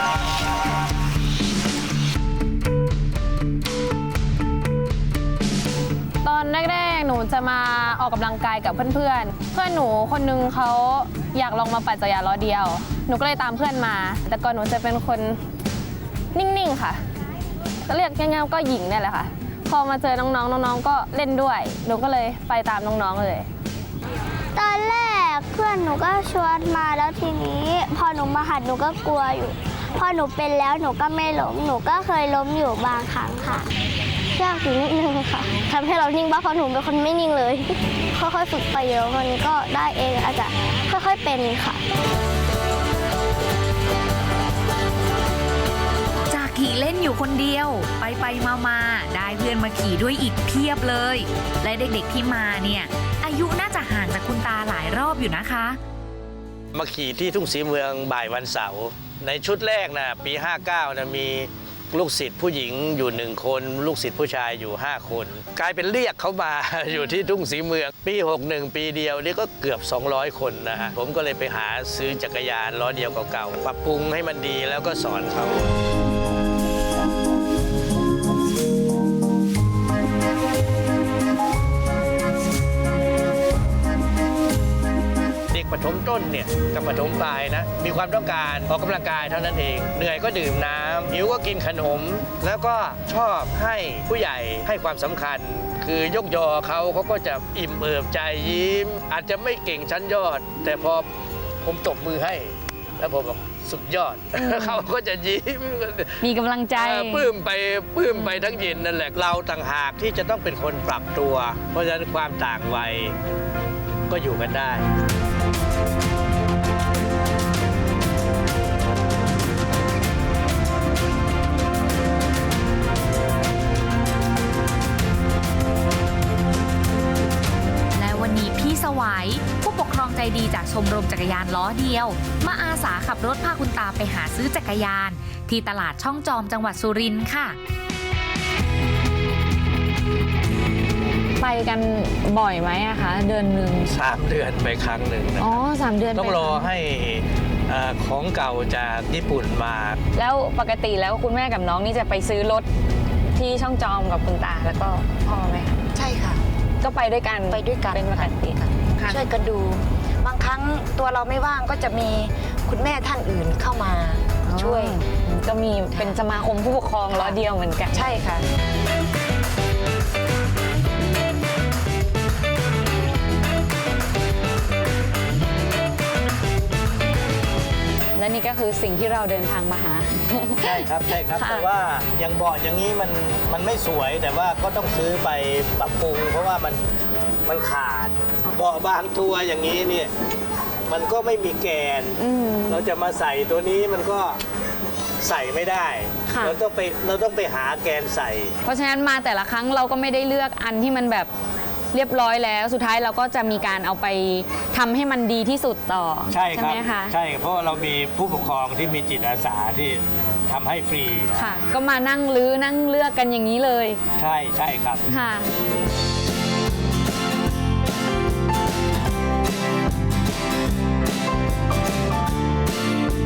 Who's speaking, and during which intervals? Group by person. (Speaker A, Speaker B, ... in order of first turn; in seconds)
Speaker A: 6.2-15.4, 16.4-17.0, 17.9-23.5
Speaker B: 24.6-33.7, 34.4-41.8
Speaker C: 46.3-55.8, 128.0-137.6
Speaker D: 56.7-75.7, 85.5-101.1, 101.6-106.2, 106.7-113.2, 114.1-114.8, 143.9-150.0, 180.6-186.8, 187.5-190.1, 190.9-194.4, 195.2-198.6, 206.3-211.5, 214.2-215.1
Speaker E: 104.4-104.9, 106.2-107.3, 108.1-108.4, 141.4-143.9, 145.4-146.7, 150.2-152.7, 153.3-155.8, 156.8-159.2, 164.4-168.1, 178.2-181.7, 192.2-192.9, 196.3-196.6, 198.6-201.3, 201.9-207.2, 211.3-214.0, 215.1-215.5
Speaker F: 155.3-156.4, 157.5-165.0, 165.9-166.2, 167.1-167.4, 167.9-168.4